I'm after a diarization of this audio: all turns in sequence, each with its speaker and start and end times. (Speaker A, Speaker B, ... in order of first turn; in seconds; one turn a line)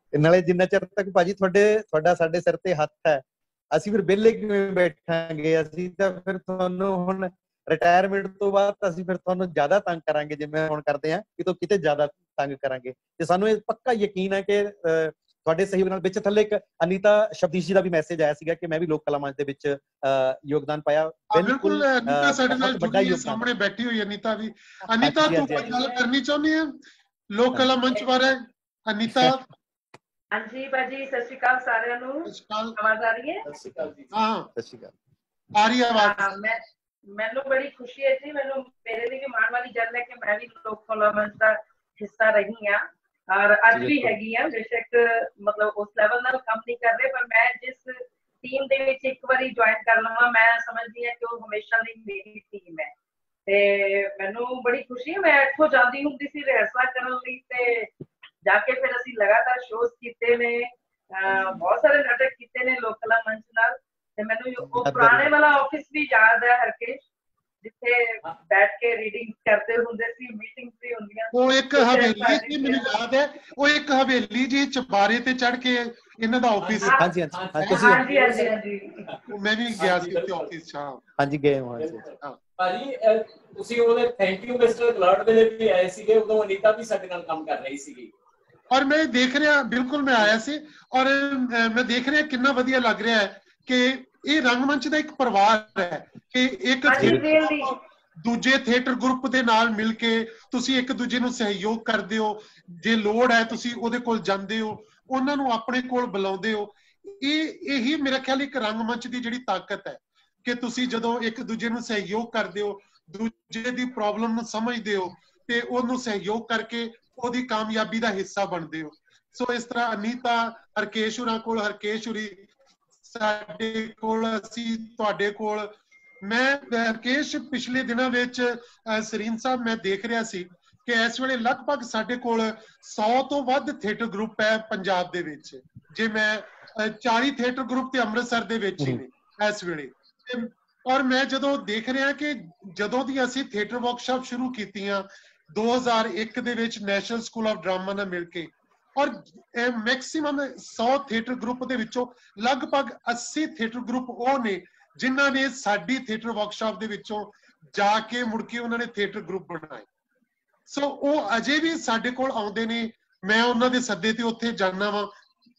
Speaker A: 0.1-23.4
Speaker B: 21.3-26.8
Speaker A: 25.0-25.8
Speaker B: 27.3-29.4
Speaker A: 29.1-29.4
Speaker C: 30.3-33.4
Speaker B: 32.3-32.8
Speaker D: 33.5-34.2
Speaker B: 34.1-34.5
Speaker A: 34.5-34.9
Speaker B: 35.5-36.3
Speaker C: 35.9-36.6
Speaker C: 37.1-52.9
Speaker A: 43.7-44.1
Speaker C: 53.5-57.9
Speaker C: 58.4-67.0
Speaker A: 64.6-65.3
Speaker C: 67.6-73.0
Speaker B: 71.3-77.0
Speaker D: 76.6-80.5
Speaker C: 76.8-77.1
Speaker A: 77.0-78.0
Speaker B: 77.6-78.0
Speaker C: 77.7-79.0
Speaker B: 79.3-81.0
Speaker A: 81.2-82.0
Speaker D: 81.8-88.1
Speaker B: 88.7-122.5
Speaker C: 96.8-97.7
Speaker B: 123.0-159.9
Speaker B: 160.7-165.1